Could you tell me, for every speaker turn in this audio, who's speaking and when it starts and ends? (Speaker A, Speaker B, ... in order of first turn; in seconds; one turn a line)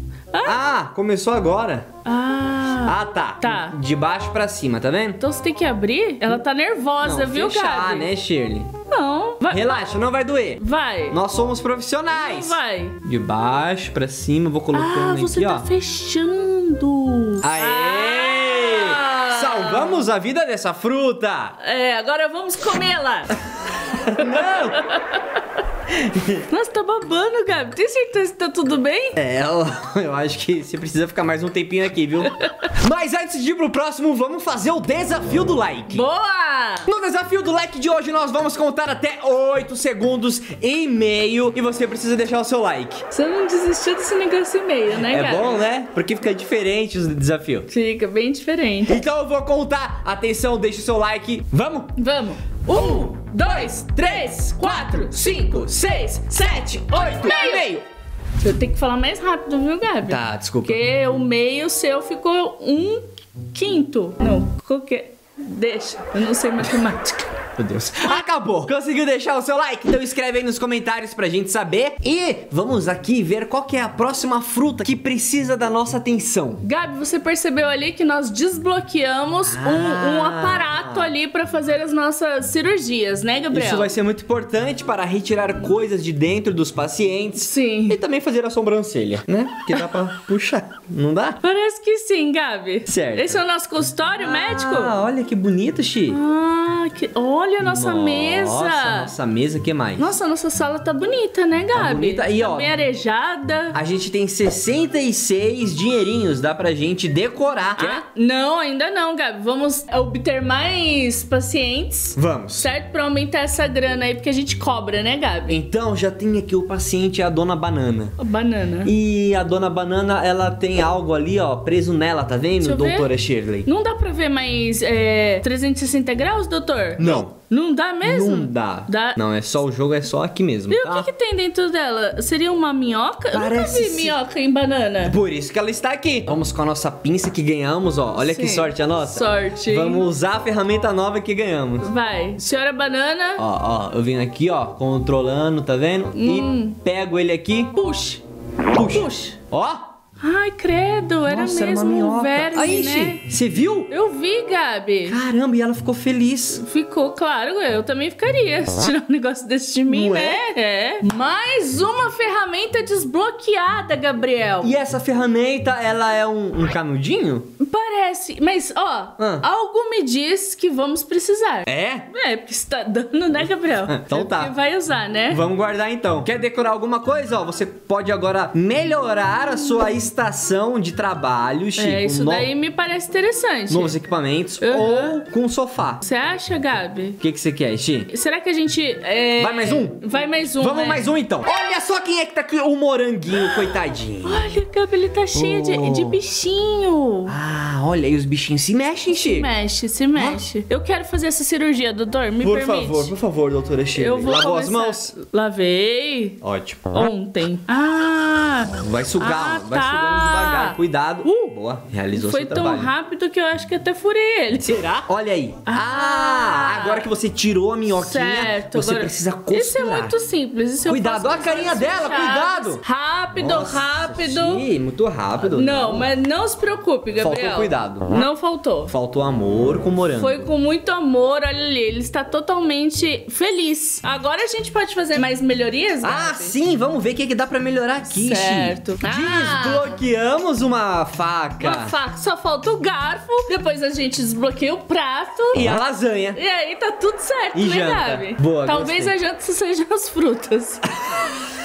Speaker A: 0.3-0.6
Speaker B: 0.4-1.9
Speaker A: 2.0-3.8
Speaker B: 2.9-5.2
Speaker A: 5.2-8.1
Speaker B: 7.0-8.7
Speaker A: 8.9-9.9
Speaker B: 9.5-15.7
Speaker A: 10.6-11.2
Speaker A: 12.1-13.0
Speaker A: 14.7-20.0
Speaker B: 17.4-21.6
Speaker A: 21.6-23.4
Speaker B: 24.1-24.8
Speaker A: 24.1-25.2
Speaker B: 25.9-26.4
Speaker A: 26.5-29.1
Speaker B: 29.2-36.1
Speaker A: 32.2-32.7
Speaker A: 35.9-36.9
Speaker B: 36.9-43.1
Speaker A: 43.1-45.6
Speaker B: 45.0-47.7
Speaker A: 47.7-49.0
Speaker B: 48.9-51.9
Speaker A: 52.0-56.2
Speaker B: 52.7-57.8
Speaker A: 56.9-57.7
Speaker A: 58.4-67.5
Speaker B: 60.0-60.8
Speaker B: 67.6-76.6
Speaker A: 76.6-83.9
Speaker B: 79.4-81.1
Speaker B: 83.5-91.4
Speaker A: 87.4-88.0
Speaker A: 91.4-95.0
Speaker B: 92.9-93.4
Speaker B: 94.2-96.2
Speaker A: 96.1-99.1
Speaker B: 97.6-100.1
Speaker A: 100.0-103.8
Speaker B: 101.7-102.7
Speaker B: 103.7-108.0
Speaker A: 107.8-115.6
Speaker B: 112.2-112.7
Speaker B: 115.5-118.2
Speaker A: 118.2-118.9
Speaker B: 118.8-123.7
Speaker A: 122.6-123.1
Speaker A: 123.7-129.2
Speaker B: 127.0-127.3
Speaker B: 128.0-131.1
Speaker A: 130.7-135.2
Speaker B: 133.3-134.2
Speaker B: 135.0-141.9
Speaker A: 138.2-140.1
Speaker A: 141.8-143.4
Speaker B: 143.4-147.7
Speaker A: 146.1-146.8
Speaker A: 147.7-148.2
Speaker B: 148.7-149.9
Speaker A: 148.8-149.4
Speaker A: 150.2-153.2
Speaker B: 151.3-153.9
Speaker A: 153.9-155.2
Speaker B: 155.1-156.6
Speaker A: 156.5-164.7
Speaker B: 159.9-160.4
Speaker B: 164.6-167.5
Speaker A: 167.6-175.4
Speaker B: 169.2-169.4
Speaker B: 171.7-172.1
Speaker B: 173.8-174.5
Speaker B: 175.3-182.5
Speaker A: 181.8-183.9
Speaker B: 183.7-186.0
Speaker A: 184.6-185.2
Speaker A: 186.0-187.2
Speaker B: 187.2-188.1
Speaker A: 188.1-191.1
Speaker B: 189.4-190.0
Speaker B: 190.6-194.4
Speaker A: 193.5-197.3
Speaker B: 195.3-196.2
Speaker B: 197.3-199.5
Speaker A: 199.1-203.1
Speaker B: 200.2-200.4
Speaker B: 202.4-205.1
Speaker A: 203.9-206.4
Speaker B: 206.4-207.1
Speaker A: 206.9-211.5
Speaker B: 208.8-212.9
Speaker A: 212.1-214.8
Speaker B: 214.6-220.2
Speaker A: 215.7-217.1
Speaker A: 217.9-224.7
Speaker B: 220.9-222.8
Speaker B: 223.4-226.1
Speaker A: 225.4-228.9
Speaker B: 227.2-228.1
Speaker B: 228.9-230.4
Speaker A: 230.1-236.6
Speaker B: 236.0-241.9
Speaker A: 238.1-239.9
Speaker A: 241.6-245.8
Speaker B: 245.5-246.4
Speaker A: 246.3-250.8
Speaker B: 247.5-249.2